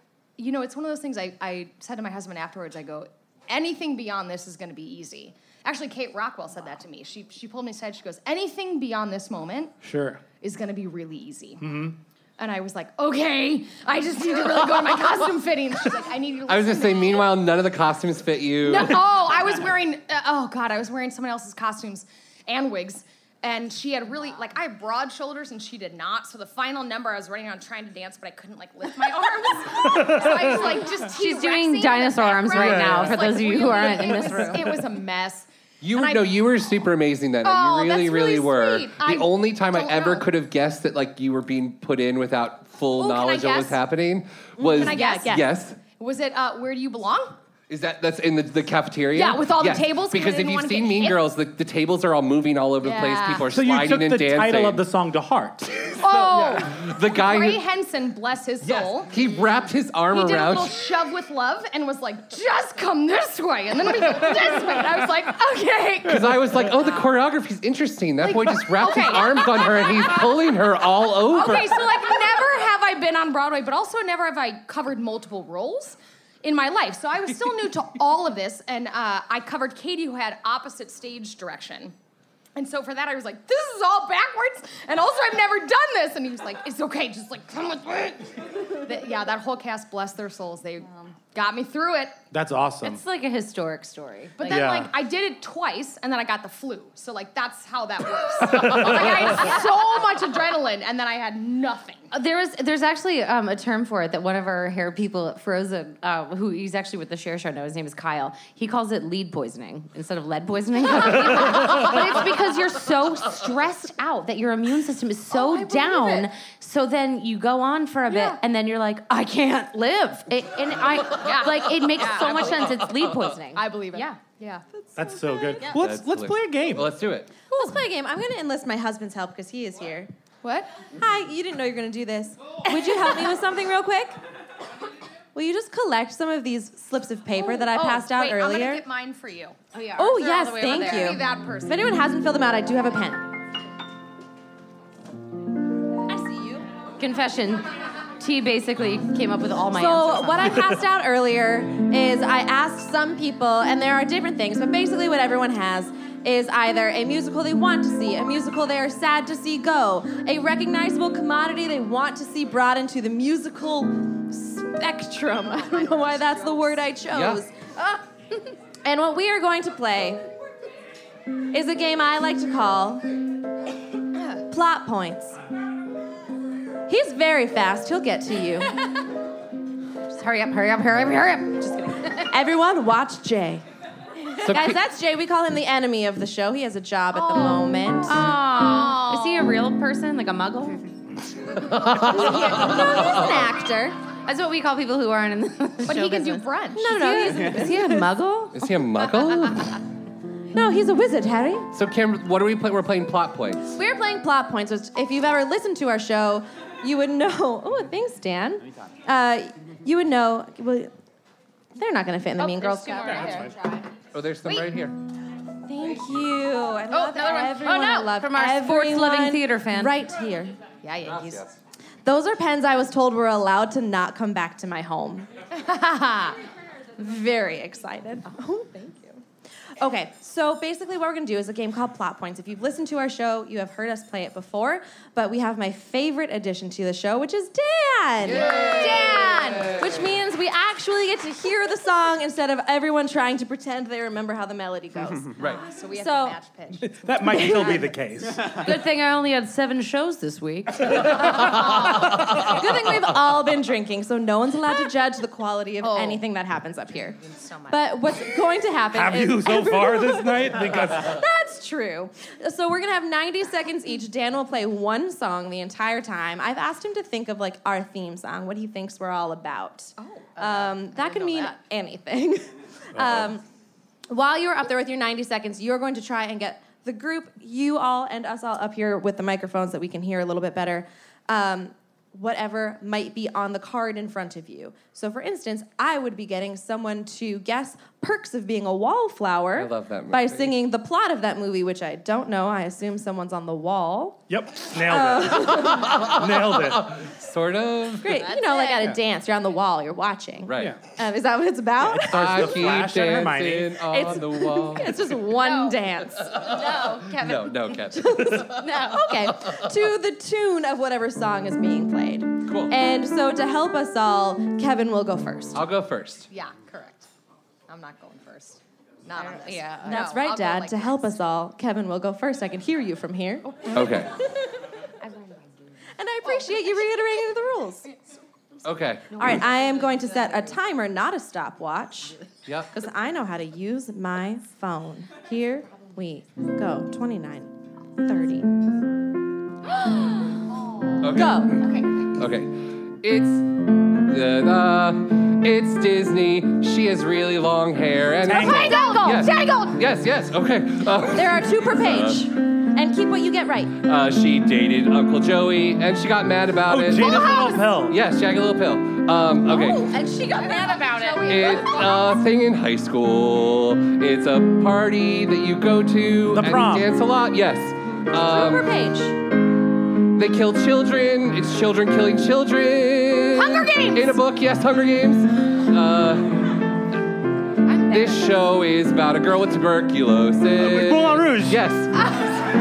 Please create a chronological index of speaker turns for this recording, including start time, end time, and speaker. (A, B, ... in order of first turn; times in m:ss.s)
0:00.4-0:09.7 A
0:09.8-0:10.2 B
0:10.4-0:11.6 A
0:11.6-0:12.0 B
0:12.4-0:17.4 A
0:16.5-0:19.0 C
0:18.6-0:36.4 A
0:29.8-0:30.7 B
0:31.1-0:34.6 D
0:32.5-0:33.4 B
0:33.9-0:34.8 B
0:35.8-0:45.8 C
0:37.4-0:40.3 A
0:42.9-0:43.8 A
0:44.6-0:45.3 E
0:44.7-0:47.3 A
0:47.7-0:54.8 C
0:49.1-0:51.3 A
0:52.8-0:53.4 A
0:53.5-0:56.6 B
0:56.0-0:59.1 A
0:56.4-0:57.6 C
0:58.7-1:00.8 C
1:00.1-1:06.4 A
1:06.0-1:12.0 C
1:08.2-1:10.5 A
1:11.2-1:21.9 A
1:22.6-1:32.2 A
1:32.3-1:33.0 B
1:32.8-1:34.7 D
1:34.4-1:42.1 A
1:34.4-1:35.0 B
1:38.5-1:39.5 B
1:42.1-2:04.1 D
1:55.3-1:56.3 A
1:58.1-1:58.4 A
2:01.2-2:02.8 A
2:03.5-2:04.6 A
2:05.0-2:06.9 B
2:05.8-2:07.3 C
2:07.5-2:10.1 E
2:10.4-2:10.7 A
2:11.0-2:14.2 E
2:12.7-2:13.2 A
2:15.3-2:18.8 E
2:17.4-2:19.6 A
2:19.7-2:21.2 D
2:20.0-2:23.2 E
2:20.2-2:21.8 A
2:26.2-2:26.6 E
2:26.2-2:26.6 A
2:27.0-2:27.7 D
2:28.2-2:30.5 D
2:29.7-2:47.7 E
2:46.3-2:46.6 A
2:47.1-2:47.4 C
2:48.8-2:50.2 E
2:51.5-2:53.1 E
2:54.5-2:55.4 E
2:56.9-2:58.7 E
3:00.1-3:02.2 D
3:02.3-3:03.6 E
3:04.4-3:04.8 C
3:04.4-3:08.2 E
3:07.1-3:09.5 A
3:08.0-3:10.9 D
3:11.6-3:13.3 C
3:12.0-3:14.0 E
3:14.3-3:18.6 D
3:15.8-3:17.4 A
3:16.7-3:18.1 E
3:18.5-3:19.8 C
3:20.5-3:21.7 E
3:21.7-3:23.7 C
3:23.8-3:30.9 E
3:31.8-3:33.5 E
3:32.4-3:33.9 A
3:34.1-3:35.0 C
3:34.5-3:34.8 A
3:35.7-3:40.6 E
3:36.9-3:38.1 A
3:37.6-3:40.0 D
3:40.8-3:41.4 A
3:41.0-3:41.6 C
3:42.0-3:45.3 E
3:45.5-3:46.4 A
3:47.0-3:49.2 E
3:49.8-4:05.4 E
3:58.2-4:00.1 C
3:58.5-3:59.8 A
4:05.4-4:07.6 A
4:05.9-4:06.4 E
4:06.8-4:08.5 B
4:07.2-4:07.9 E
4:08.6-4:11.1 D
4:10.9-4:11.6 B
4:11.2-4:17.2 E
4:11.2-4:12.1 A
4:11.3-4:13.0 C
4:15.8-4:16.2 A
4:17.2-4:17.8 A
4:17.7-4:33.4 E
4:18.9-4:21.2 B
4:30.0-4:31.6 A
4:33.0-4:33.3 C
4:34.1-4:54.2 E
4:49.6-4:50.5 C
4:54.3-4:57.0 B
4:54.8-4:56.1 E
4:55.5-4:58.2 C
4:58.0-5:02.5 E
4:58.3-4:58.8 D
4:58.3-4:58.8 A
5:00.4-5:00.8 C
5:01.8-5:03.8 B
5:02.1-5:05.2 C
5:03.9-5:06.4 E
5:05.4-5:05.8 A
5:06.2-5:09.7 C
5:06.6-5:07.2 D
5:06.8-5:07.2 A
5:07.9-5:15.6 E
5:08.6-5:08.9 D
5:12.5-5:12.7 C
5:15.5-5:16.3 C
5:16.3-5:17.1 A
5:17.7-5:21.2 A
5:19.2-5:20.2 D
5:19.8-5:23.7 E
5:23.7-5:24.1 C
5:26.0-5:27.9 E
5:26.2-5:26.9 A
5:28.6-5:29.3 C
5:29.1-5:32.2 E
5:32.5-5:32.7 C
5:32.7-5:38.5 E
5:41.0-5:52.3 C
5:41.2-5:41.6 E
5:48.2-5:48.8 B
5:48.3-5:49.8 A
5:51.1-5:53.7 E
5:53.8-5:59.9 C
5:56.7-5:58.0 B
5:56.9-5:57.6 A
5:59.5-6:01.5 D
5:59.9-6:00.6 E
6:00.3-6:02.2 A
6:01.2-6:08.7 C
6:06.3-6:06.9 B
6:08.1-6:09.2 E
6:10.2-6:16.6 C
6:13.3-6:14.2 A
6:17.7-6:18.2 D
6:17.9-6:21.9 C
6:20.6-6:21.6 B